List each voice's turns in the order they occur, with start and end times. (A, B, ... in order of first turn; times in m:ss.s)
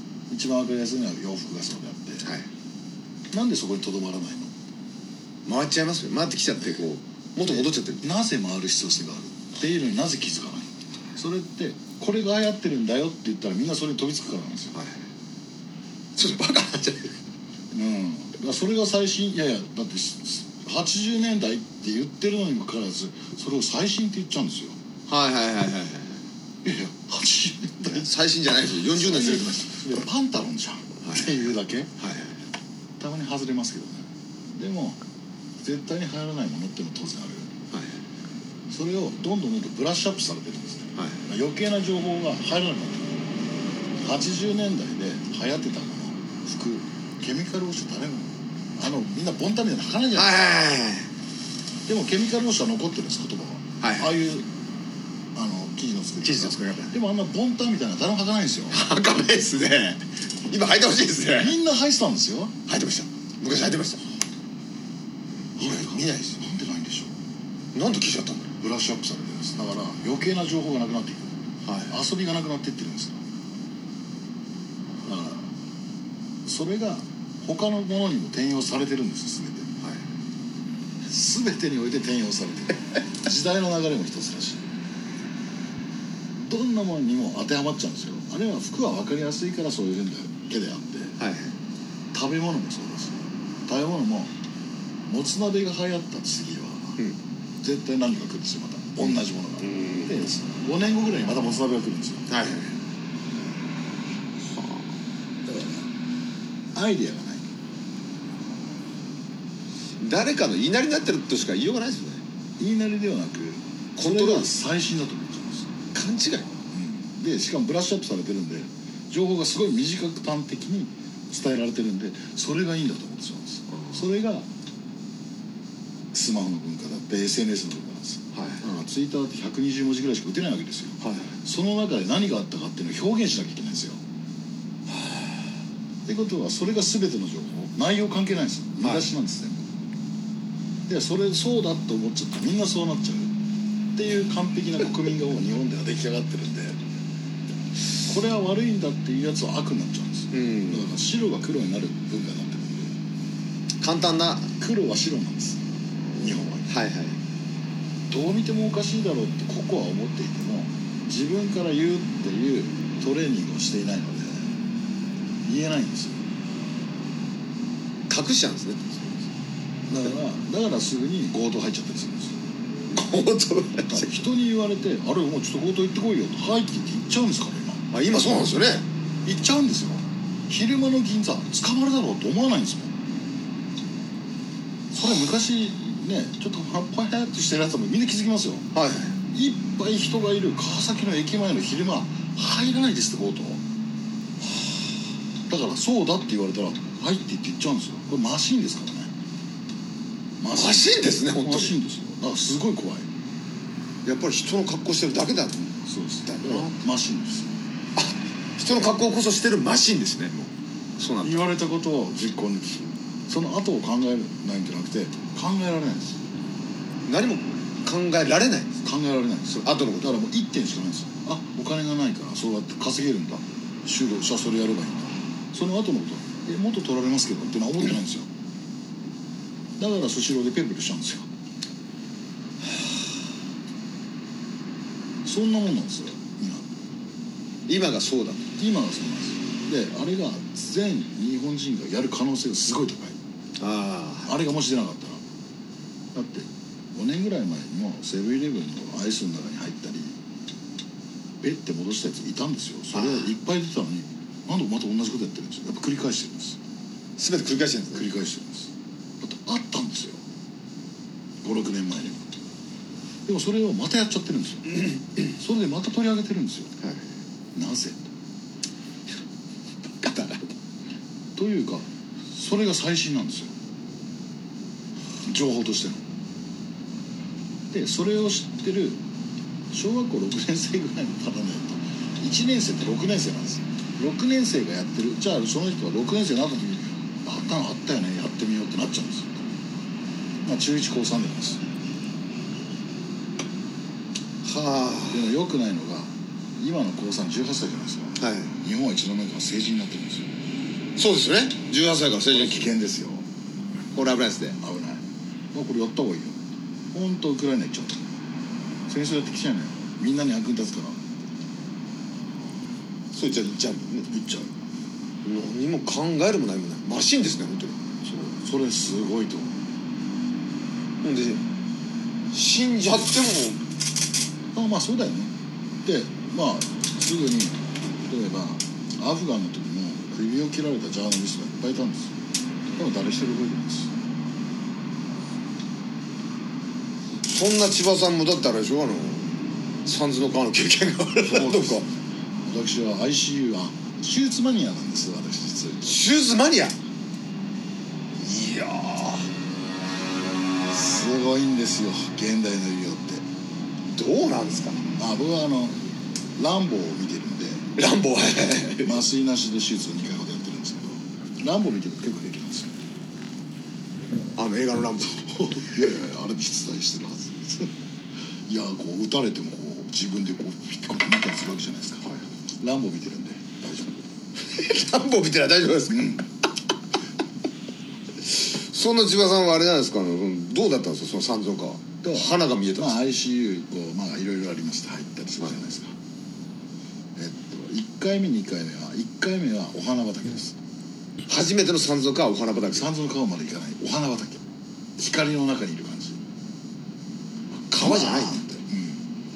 0:00.3-0:02.3 A
0:03.3-0:04.5 A
0:05.4-0:08.1 B
0:07.4-0:14.7 A
0:16.2-0:17.2 B
0:17.7-0:24.8 A
0:25.1-0:26.2 B
0:26.6-0:28.1 A
0:27.8-0:30.0 B
0:28.7-0:31.9 A
0:31.0-0:32.4 B
0:33.0-0:35.0 A
0:35.6-0:37.6 A
0:37.7-0:38.0 B
0:38.7-0:43.2 A
0:44.0-0:50.3 A
0:50.1-0:51.1 B
0:51.9-0:54.5 A
0:53.8-0:54.2 B
0:55.3-0:58.8 A
0:56.2-0:57.0 B
0:58.7-1:01.6 B
1:01.4-1:02.6 A
1:02.7-1:04.0 B
1:05.5-1:06.4 B
1:05.6-1:07.1 A
1:07.7-1:08.5 B
1:08.6-1:11.3 A
1:11.6-1:12.0 B
1:11.9-1:13.2 A
1:15.0-1:15.5 A
1:16.4-1:19.7 A
1:21.1-1:24.6 A
1:26.4-1:31.2 A
1:31.2-1:31.6 B
1:32.1-1:34.3 A
1:35.1-1:37.0 A
1:37.6-1:42.3 A
1:39.6-1:40.2 B
1:42.3-1:42.7 B
1:44.6-1:44.8 B
1:45.4-1:45.9 A
1:46.7-1:47.5 A
1:50.0-1:52.2 B
1:52.6-1:55.7 A
1:54.0-1:54.5 B
1:55.9-1:56.5 B
1:56.7-2:04.5 A
2:03.7-2:04.1 B
2:06.1-2:14.0 A
2:08.3-2:08.8 B
2:11.0-2:11.4 B
2:14.9-2:15.5 B
2:16.0-2:19.7 A
2:18.8-2:19.0 B
2:20.9-2:23.3 A
2:23.9-2:26.8 A
2:28.0-2:32.9 A
2:30.3-2:30.9 B
2:33.8-2:34.5 B
2:34.6-2:36.7 A
2:36.2-2:37.2 B
2:38.1-2:44.5 A
2:45.4-2:46.2 A
2:48.1-2:49.2 B
2:49.9-2:52.4 A
2:52.9-2:54.1 B
2:53.8-2:57.8 A
2:57.9-2:58.9 B
2:59.2-3:02.9 A
3:04.9-3:08.7 A
3:08.7-3:09.2 B
3:09.3-3:13.6 A
3:15.5-3:19.1 A
3:20.4-3:23.1 A
3:20.5-3:21.8 B
3:24.0-3:25.7 B
3:25.8-3:27.5 A
3:26.2-3:26.7 B
3:28.0-3:31.5 B
3:31.2-3:36.2 A
3:37.0-3:38.8 B
3:38.8-3:48.3 A
3:39.5-3:40.1 B
3:49.8-3:51.3 A
3:55.2-3:56.7 A
3:57.7-3:58.5 B
3:58.6-4:03.2 A
4:03.6-4:04.3 B
4:04.2-4:05.2 A
4:06.1-4:10.2 A
4:11.4-4:16.6 A
4:12.9-4:13.3 B
4:17.2-4:18.1 B
4:17.9-4:20.2 A
4:21.4-4:22.2 A
4:23.2-4:26.7 A
4:26.8-4:27.1 B
4:27.6-4:28.0 A
4:30.0-4:30.5 B
4:31.4-4:33.5 A
4:35.2-4:36.0 A
4:37.7-4:39.0 A
4:39.7-4:49.5 A
4:50.4-4:51.6 A
4:54.4-4:55.3 B
4:55.1-5:00.3 A
4:58.2-4:58.5 B
5:01.0-5:02.7 B
5:02.3-5:03.2 A
5:03.9-5:04.6 B
5:04.6-5:06.4 A
5:06.9-5:08.0 A
5:08.9-5:11.0 A
5:13.1-5:14.1 B
5:14.1-5:14.5 A
5:15.2-5:17.8 B
5:18.2-5:19.6 A
5:21.0-5:21.4 B
5:22.3-5:23.6 B
5:24.5-5:25.3 A
5:25.8-5:32.2 A
5:32.7-5:33.9 A
5:37.2-5:39.3 B
5:39.8-5:41.9 B
5:41.2-5:41.8 A
5:42.4-5:46.0 A
5:45.8-5:46.8 B
5:48.2-5:49.3 B
5:50.7-5:53.2 A
5:53.9-5:54.8 B
5:54.9-5:55.8 A
5:56.4-5:57.6 A
5:57.8-5:59.0 B
5:58.8-6:02.8 A
6:04.4-6:05.8 B
6:05.4-6:07.7 A
6:08.5-6:14.0 A
6:14.5-6:16.1 B
6:15.9-6:16.3 A
6:18.2-6:23.0 B
6:22.0-6:25.9 A
6:27.2-6:30.6 A
6:31.2-6:32.9 B
6:32.7-6:34.4 A
6:35.0-6:36.2 A
6:37.7-6:38.4 B
6:37.7-6:39.1 A